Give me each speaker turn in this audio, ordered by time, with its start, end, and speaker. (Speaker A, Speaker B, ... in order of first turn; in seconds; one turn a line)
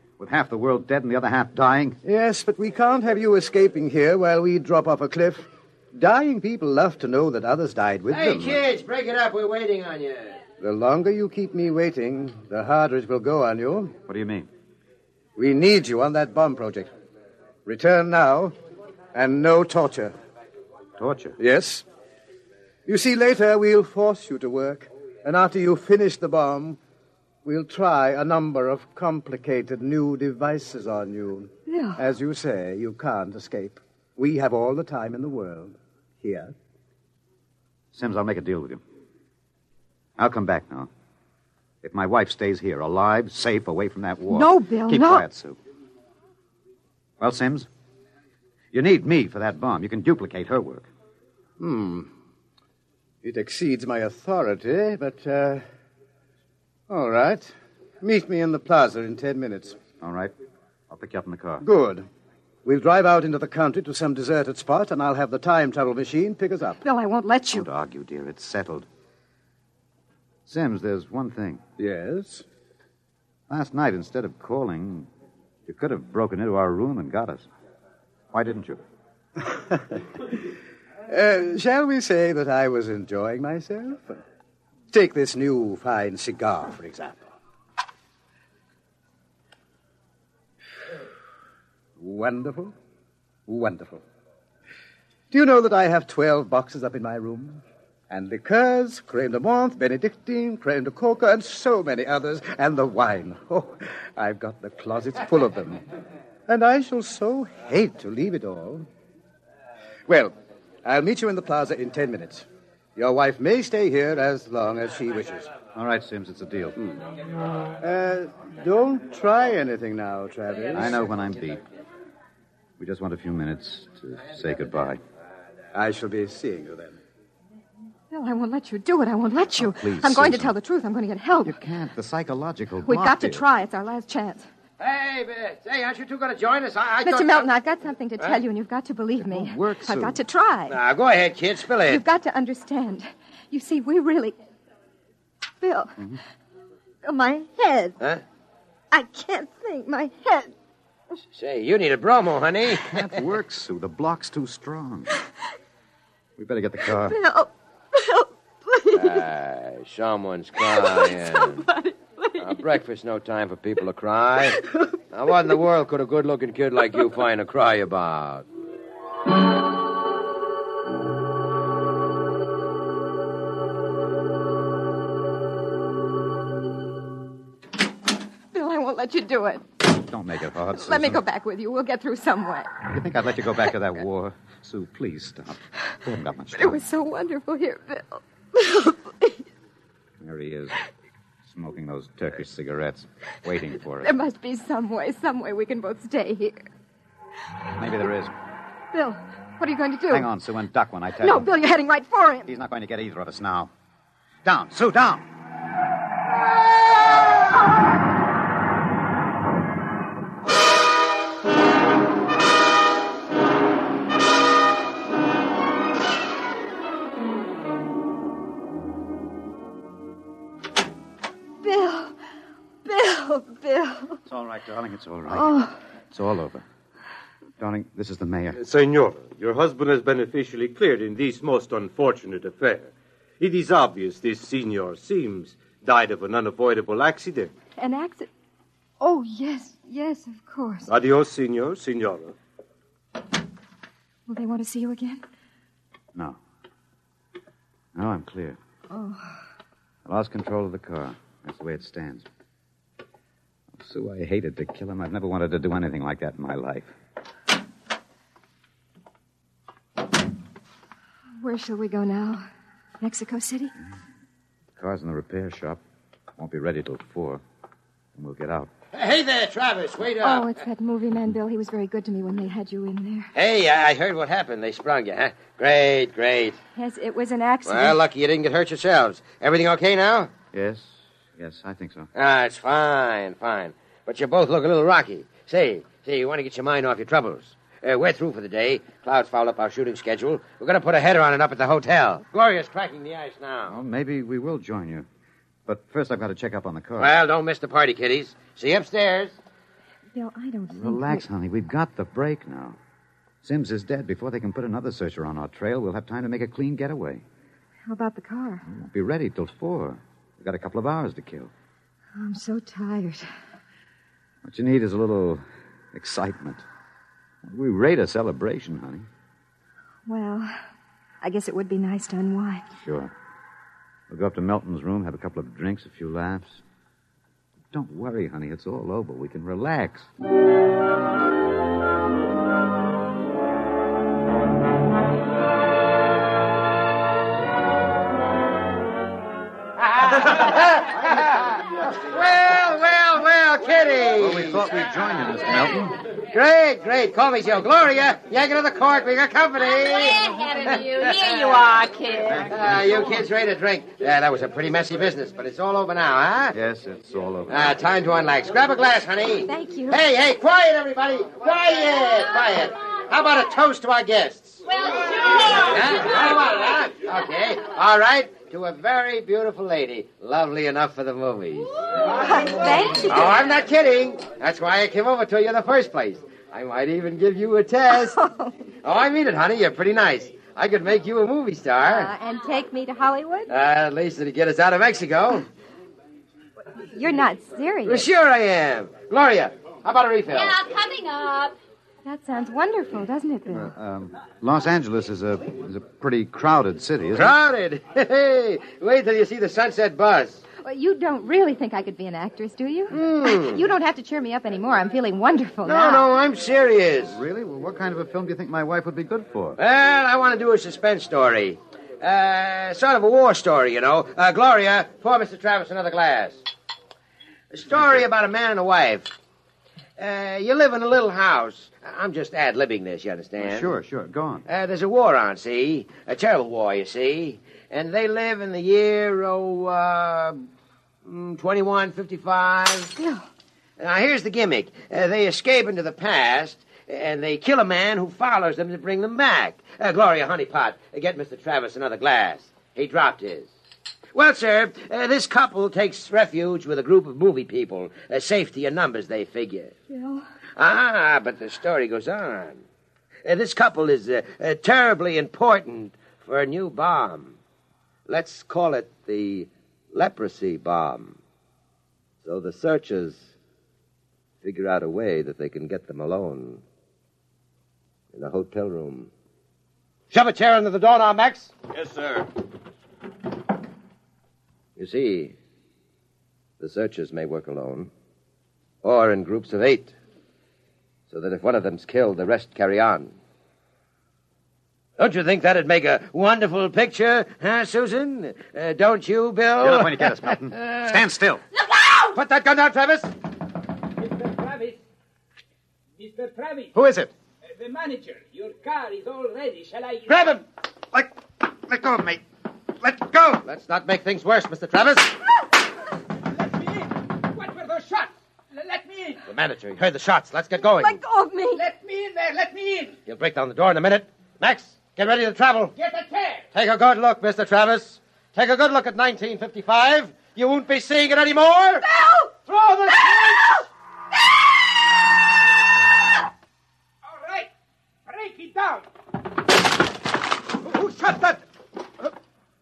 Speaker A: 0.2-2.0
Speaker B: 2.0-8.7
Speaker C: 8.1-10.4
Speaker B: 10.6-13.9
Speaker A: 14.1-14.5
Speaker B: 15.4-16.9
Speaker B: 17.7-18.5
Speaker B: 19.1-20.1
Speaker A: 21.0-21.4
Speaker B: 21.4-21.8
Speaker B: 22.9-26.8
Speaker B: 27.4-36.5
Speaker D: 31.7-32.0
Speaker A: 37.9-38.8
Speaker A: 40.2-40.9
Speaker A: 41.8-45.6
Speaker D: 44.3-45.2
Speaker A: 47.2-47.7
Speaker A: 48.7-50.9
Speaker B: 51.6-52.1
Speaker B: 53.2-55.6
Speaker B: 56.9-59.8
Speaker A: 60.0-60.3
Speaker A: 60.9-61.6
Speaker B: 61.6-62.1
Speaker B: 62.6-66.8
Speaker D: 66.8-67.7
Speaker A: 67.5-68.9
Speaker A: 70.5-71.6
Speaker B: 71.8-72.5
Speaker A: 73.5-75.1
Speaker A: 75.7-77.5
Speaker A: 78.3-78.8
Speaker B: 79.5-80.0
Speaker B: 81.1-84.2
Speaker B: 84.9-87.3
Speaker B: 92.0-92.7
Speaker B: 93.5-94.0
Speaker B: 95.3-105.8
Speaker B: 106.5-108.9
Speaker B: 110.1-110.3
Speaker B: 110.8-115.5
Speaker A: 115.7-116.8
Speaker B: 117.8-121.0
Speaker A: 120.8-121.6
Speaker A: 122.8-125.0
Speaker B: 125.7-127.0
Speaker D: 128.1-131.6
Speaker A: 129.5-130.5
Speaker A: 131.4-133.5
Speaker D: 132.9-134.5
Speaker C: 134.8-137.5
Speaker D: 137.0-140.8
Speaker A: 139.2-140.2
Speaker C: 140.7-142.0
Speaker D: 141.9-144.4
Speaker D: 145.6-146.2
Speaker D: 147.0-148.0
Speaker D: 148.9-150.5
Speaker C: 151.3-153.2
Speaker A: 152.9-155.1
Speaker A: 156.4-157.2
Speaker D: 157.0-159.3
Speaker C: 158.9-161.7
Speaker D: 160.6-162.7
Speaker C: 162.4-164.6
Speaker C: 165.1-168.5
Speaker D: 178.5-179.8
Speaker A: 179.8-181.2
Speaker D: 180.8-182.8
Speaker A: 182.8-186.8
Speaker D: 186.6-189.4
Speaker A: 190.2-190.8
Speaker A: 191.4-194.1
Speaker D: 194.0-196.7
Speaker A: 197.8-198.3
Speaker D: 198.9-200.3
Speaker A: 200.1-201.5
Speaker D: 201.2-202.5
Speaker A: 202.5-203.7
Speaker A: 204.4-205.3
Speaker D: 221.6-222.2
Speaker D: 222.8-224.2
Speaker A: 224.3-225.6
Speaker D: 225.3-225.8
Speaker A: 226.1-226.7
Speaker A: 227.6-228.6
Speaker E: 228.5-237.5
Speaker D: 237.8-238.3
Speaker D: 239.0-240.9
Speaker E: 240.9-242.3
Speaker D: 244.3-245.2
Speaker A: 247.9-248.6
Speaker D: 248.9-249.4
Speaker A: 250.1-252.3
Speaker A: 253.7-256.9
Speaker D: 261.4-262.5
Speaker D: 263.0-263.7
Speaker A: 264.8-265.8
Speaker A: 266.4-267.4
Speaker A: 268.1-268.7
Speaker C: 268.9-270.5
Speaker D: 270.2-273.3
Speaker C: 273.3-276.6
Speaker D: 276.8-278.0
Speaker C: 277.7-280.3
Speaker A: 280.5-282.1
Speaker C: 282.1-293.8
Speaker A: 293.7-295.1
Speaker A: 295.7-297.1
Speaker C: 297.0-299.4
Speaker D: 300.1-301.3
Speaker A: 300.7-302.8
Speaker A: 303.4-307.2
Speaker D: 307.9-308.7
Speaker A: 308.7-311.5
Speaker D: 312.2-313.2
Speaker A: 314.4-316.6
Speaker A: 317.4-319.1
Speaker D: 320.1-320.6
Speaker D: 321.2-322.7
Speaker A: 322.8-323.1
Speaker A: 324.1-326.6
Speaker A: 327.7-330.1
Speaker C: 339.9-344.7
Speaker A: 344.2-346.0
Speaker C: 346.2-351.8
Speaker F: 350.1-352.3
Speaker A: 352.2-353.2
Speaker C: 352.4-356.6
Speaker A: 356.5-357.8
Speaker C: 357.5-364.6
Speaker D: 359.5-360.0
Speaker F: 365.2-365.6
Speaker C: 365.3-371.8
Speaker D: 372.1-373.3
Speaker C: 373.1-378.2
Speaker D: 377.9-378.6
Speaker C: 378.8-382.1
Speaker D: 381.8-383.5
Speaker C: 383.5-385.5
Speaker D: 386.8-388.1
Speaker C: 387.8-390.7
Speaker F: 390.6-391.6
Speaker D: 392.1-393.7
Speaker A: 393.5-397.4
Speaker C: 397.1-400.4
Speaker D: 400.6-406.1
Speaker C: 402.9-403.6
Speaker C: 405.6-407.2
Speaker A: 407.1-409.6
Speaker C: 409.6-416.5
Speaker C: 417.5-419.1
Speaker C: 420.0-423.7
Speaker A: 423.4-424.4
Speaker C: 424.5-430.5
Speaker C: 431.1-432.9
Speaker D: 433.0-433.2
Speaker C: 433.8-443.5
Speaker C: 444.1-449.8
Speaker D: 449.9-450.3
Speaker C: 450.6-452.6
Speaker C: 453.2-457.4
Speaker C: 458.1-461.2
Speaker C: 462.2-463.3
Speaker C: 464.4-466.6
Speaker C: 468.1-469.1
Speaker C: 470.1-472.3
Speaker C: 474.8-475.4
Speaker C: 476.6-477.9
Speaker C: 478.8-479.9
Speaker C: 481.1-483.1
Speaker C: 485.0-490.8
Speaker A: 489.6-491.4
Speaker C: 491.9-493.1
Speaker G: 494.0-494.8
Speaker G: 496.0-496.7
Speaker A: 496.7-497.1
Speaker G: 497.4-500.4
Speaker C: 500.1-500.4
Speaker A: 501.7-502.2
Speaker A: 502.8-503.4
Speaker C: 503.4-505.2
Speaker G: 506.2-509.2
Speaker C: 509.3-511.0
Speaker D: 510.7-511.6
Speaker G: 511.5-513.0
Speaker C: 513.1-515.8
Speaker G: 515.7-516.5
Speaker C: 516.5-521.9
Speaker C: 522.5-523.5
Speaker G: 527.0-527.5
Speaker G: 528.1-528.9
Speaker G: 530.6-531.5